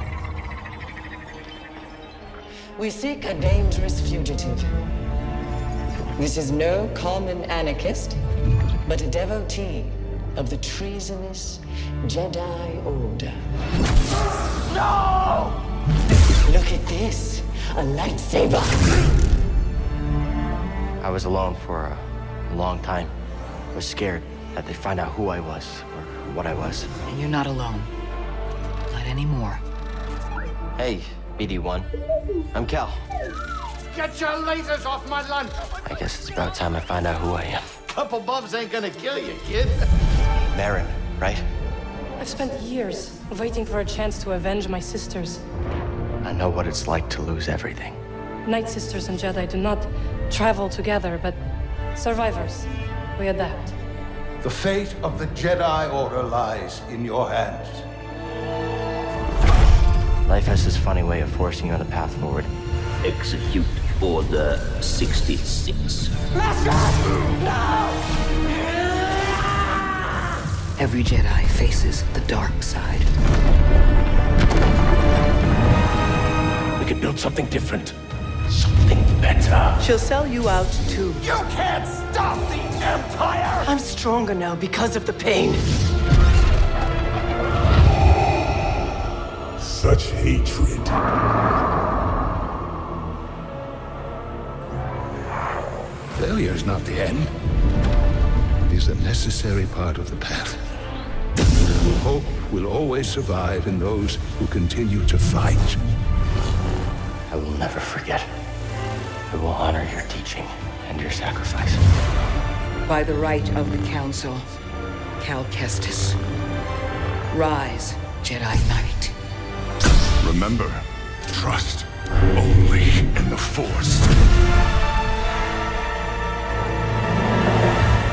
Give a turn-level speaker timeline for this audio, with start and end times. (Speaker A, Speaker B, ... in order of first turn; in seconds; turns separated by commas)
Speaker A: 2.8-4.7, Speaker A: 6.2-8.2, Speaker A: 8.9-13.4, Speaker A: 16.4-19.0, Speaker B: 21.0-23.1, Speaker B: 23.7-26.9, Speaker C: 27.1-27.9, Speaker C: 28.9-29.6, Speaker B: 30.8-31.9, Speaker B: 32.5-33.0, Speaker D: 33.9-35.6, Speaker B: 35.9-37.8, Speaker D: 37.9-39.9, Speaker B: 40.5-41.4, Speaker E: 42.2-45.4, Speaker B: 46.2-48.0, Speaker E: 48.5-51.4, Speaker E: 51.9-53.7, Speaker F: 54.4-57.9, Speaker B: 60.3-62.5, Speaker G: 63.0-66.1, Speaker A: 66.6-67.2, Speaker C: 70.8-73.1, Speaker F: 76.8-77.9, Speaker F: 78.5-79.7, Speaker H: 79.8-81.3, Speaker D: 81.4-82.3, Speaker F: 82.7-83.4, Speaker D: 82.9-83.5, Speaker H: 83.6-85.7, Speaker I: 89.6-91.0, Speaker F: 89.9-90.6, Speaker F: 96.2-97.3, Speaker F: 98.7-100.6, Speaker F: 101.9-105.8, Speaker B: 107.3-108.3, Speaker B: 109.3-111.8, Speaker C: 112.9-114.5, Speaker C: 115.2-116.2, Speaker C: 117.3-119.2, Speaker F: 120.2-120.8, Speaker I: 121.3-121.7, Speaker F: 121.3-121.9, Speaker F: 122.4-123.9, Speaker I: 122.4-123.9